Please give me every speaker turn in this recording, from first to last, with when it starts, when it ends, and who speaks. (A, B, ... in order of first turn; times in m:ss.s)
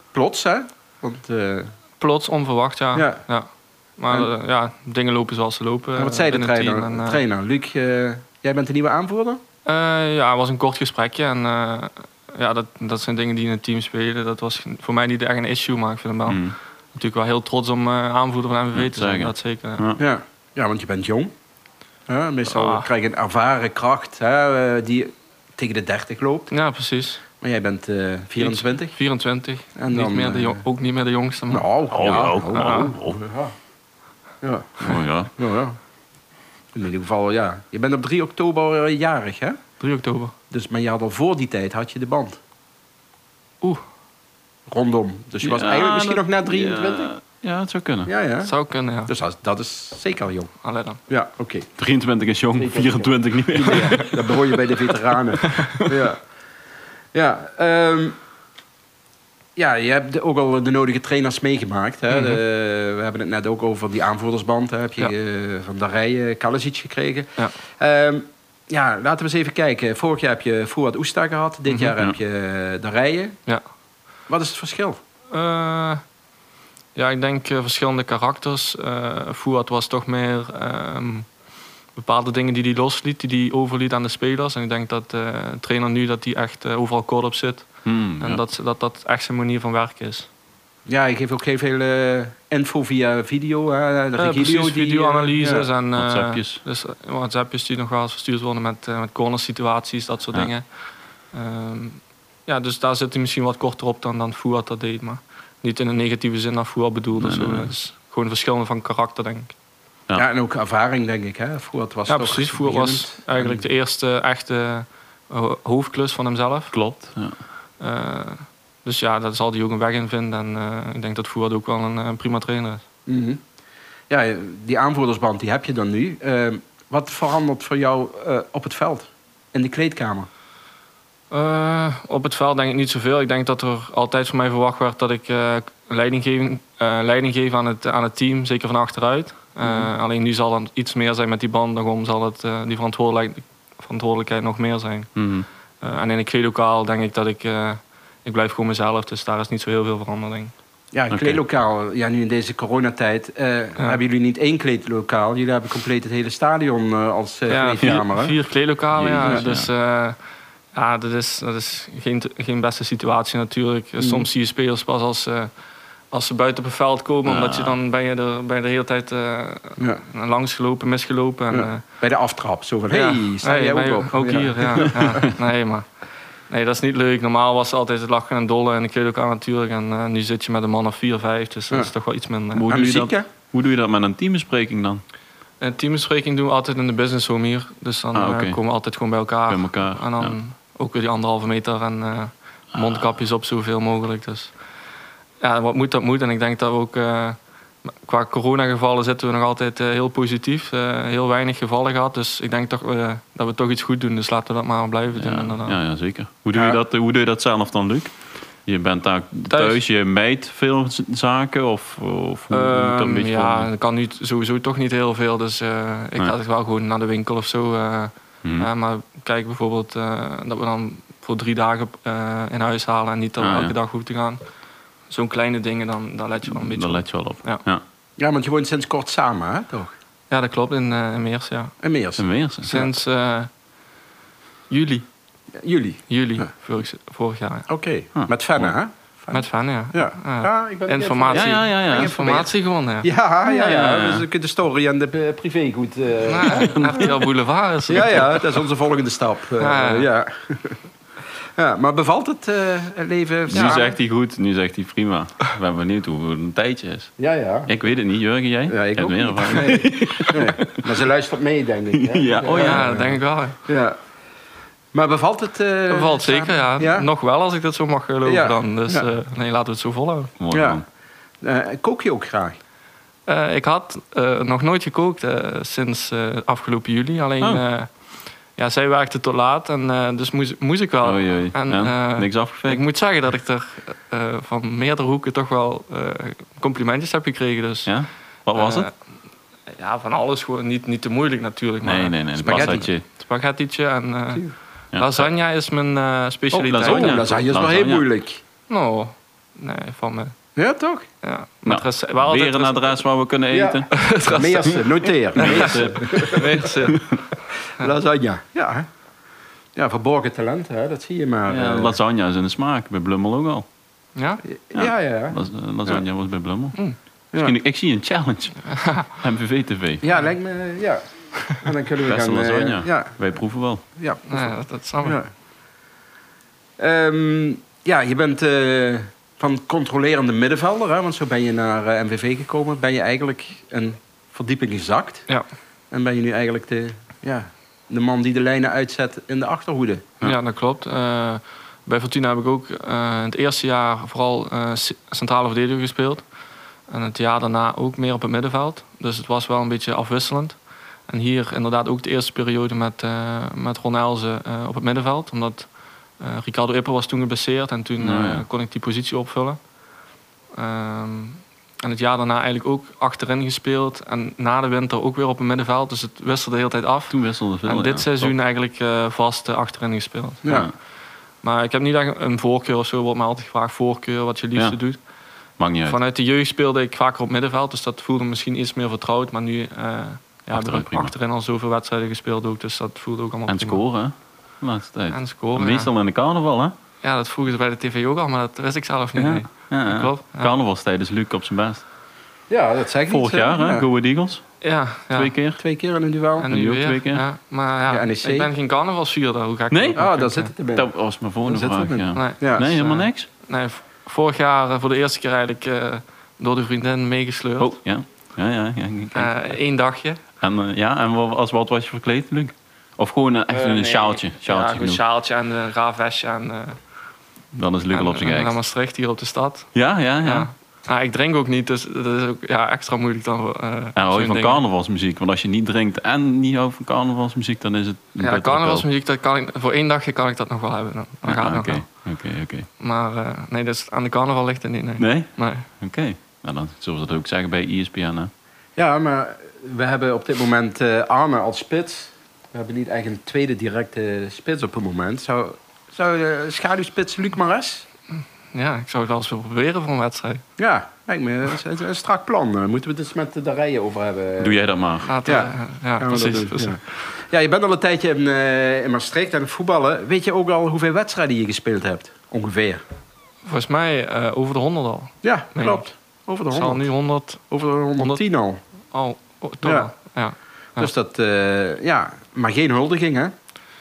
0:00.1-0:01.7 A
0:02.0-0:07.2 B
0:02.9-0:03.2 A
0:06.0-0:09.4 A
0:09.6-0:19.8 B
0:16.3-0:16.6 C
0:18.7-0:20.0 C
0:20.0-0:21.3 A
0:22.1-0:26.5 A
0:22.4-0:22.9 B
0:26.5-0:27.2 B
0:27.4-0:29.0 A
0:28.4-0:31.6 B
0:29.8-0:30.6 A
0:31.5-0:33.5 A
0:31.9-0:33.2 C
0:32.5-0:32.9 B
0:34.4-0:35.8 A
0:34.8-0:35.3 C
0:36.7-0:39.6 A
0:39.8-0:40.3 B
0:40.5-0:42.4 A
0:44.7-0:47.1 A
0:45.4-0:48.1 C
0:48.0-0:50.5 A
0:48.4-0:49.1 B
0:50.6-0:51.0 B
0:51.1-0:51.7 A
0:51.8-0:54.5 C
0:52.5-0:56.2 A
0:57.1-0:58.2 A
0:59.6-1:13.4 A
1:02.1-1:02.4 B
1:11.7-1:11.9 B
1:14.3-1:15.0 A
1:15.3-1:16.0 B
1:16.9-1:21.3 B
1:21.9-1:30.3 B
1:27.8-1:28.4 C
1:30.9-1:35.7 A
1:34.2-1:40.6 B
1:36.0-1:36.6 C
1:41.3-1:49.5 B
1:47.2-1:47.7 C
1:50.2-1:53.6 A
1:52.1-1:56.8 B
1:56.7-1:57.3 C
1:57.8-2:02.8 B
2:03.1-2:03.4 A
2:04.1-2:10.3 A
2:11.3-2:25.2 B
2:19.6-2:19.9 A
2:25.2-2:25.4 C
2:25.8-2:30.5 B
2:30.9-2:38.4 A
2:31.1-2:31.4 C
2:37.5-2:40.2 B
2:37.8-2:38.1 C
2:38.9-2:39.7 C
2:40.7-2:45.5 B
2:44.0-2:44.3 A
2:46.1-2:51.8 B
2:47.2-2:47.8 C
2:49.8-2:50.0 A
2:51.5-2:55.2 A
2:52.9-2:55.9 B
2:56.5-3:02.6 B
3:02.5-3:05.0 C
3:02.7-3:03.3 A
3:05.6-3:14.5 B
3:08.1-3:08.6 C
3:09.5-3:10.4 C
3:12.7-3:13.1 C
3:15.4-3:25.8 B
3:25.1-3:33.7 C
3:29.5-3:29.8 B
3:32.5-3:44.4 B
3:38.4-3:38.7 C
3:43.4-3:43.7 C
3:45.1-3:47.6 B
3:46.5-3:47.8 C
3:48.2-3:49.9 A
3:50.3-3:51.7 B
3:51.8-3:52.3 A
3:52.2-3:52.9 C
3:52.6-3:53.5 B
3:54.7-3:55.1 B
3:55.6-3:56.4 A
3:56.1-3:57.7 B
3:57.7-4:07.1 A
3:58.1-3:58.7 C
3:59.3-4:03.1 B
4:01.3-4:02.2 C
4:03.4-4:04.3 C
4:06.2-4:08.3 B
4:06.4-4:07.3 C
4:07.9-4:08.4 C
4:07.9-4:10.8 A
4:09.6-4:10.1 B
4:11.6-4:13.9 A
4:13.5-4:17.1 C
4:17.2-4:17.7 A
4:17.7-4:21.0 C
4:18.7-4:24.0 A
4:21.9-4:22.9 C
4:22.5-4:23.6 B
4:24.9-4:27.1 A
4:25.9-4:30.3 B
4:28.2-4:29.1 A
4:30.4-4:30.8 C
4:30.5-4:30.8 A
4:31.4-4:32.6 A
4:33.2-4:37.9 B
4:38.5-4:47.9 B
4:41.0-4:42.8 C
4:47.8-4:48.9 C
4:48.5-4:48.9 B
4:49.7-4:57.4 B
4:51.8-4:53.0 C
4:52.4-4:52.9 A
4:54.9-4:55.3 C
4:56.5-4:58.1 C
4:56.5-4:58.4 A
4:58.7-5:00.3 B
5:00.6-5:01.1 A
5:01.2-5:03.0 B
5:01.6-5:03.9 C
5:03.5-5:06.7 A
5:03.9-5:07.0 B
5:05.3-5:07.2 C
5:07.8-5:08.9 A
5:09.7-5:12.0 A
5:11.5-5:13.6 C
5:14.2-5:14.4 B
5:14.4-5:16.0 A
5:14.7-5:20.0 C
5:18.7-5:19.1 B
5:20.0-5:23.2 A
5:22.0-5:23.8 C
5:24.0-5:25.3 A
5:24.2-5:25.2 B
5:26.8-5:35.3 A
5:35.9-5:40.0 A
5:40.2-5:46.2 B
5:46.9-5:59.6 B
5:58.0-5:58.5 C
6:00.5-6:10.6 B
6:07.1-6:08.3 C
6:10.4-6:10.7 A
6:10.4-6:10.7 C
6:11.4-6:15.0 B
6:15.6-6:16.0 C
6:15.8-6:23.8 B
6:20.5-6:21.1 C
6:23.5-6:26.7 C
6:25.1-6:25.9 B
6:27.0-6:30.6 B
6:29.2-6:31.8 C
6:32.5-6:33.9 A
6:33.1-6:34.4 C
6:34.6-6:35.4 B
6:35.1-6:35.6 C
6:35.6-6:36.5 A
6:36.4-6:40.5 B
6:36.5-6:37.2 C
6:37.9-6:38.5 A
6:39.7-6:40.0 C
6:40.0-6:42.7 A
6:40.7-6:43.3 C
6:42.1-6:47.8 B
6:47.6-6:49.4 C
6:49.1-6:50.2 B
6:50.4-6:55.0 C
6:53.5-6:56.8 B
6:57.5-6:58.6 C
6:57.9-7:04.6 B
6:59.7-7:00.5 C
7:04.0-7:08.8 C
7:08.2-7:11.9 B
7:11.2-7:12.7 C
7:12.8-7:15.7 B
7:15.0-7:18.3 C
7:18.8-7:27.8 A
7:28.5-7:30.4 B
7:30.6-7:34.6 A
7:34.4-7:35.1 C
7:35.0-7:36.8 B
7:35.2-7:42.8 A
7:43.4-7:45.9 B
7:45.2-7:48.6 A
7:46.5-7:48.2 B
7:48.9-7:50.9 B
7:49.6-7:49.9 A
7:50.8-7:53.3 A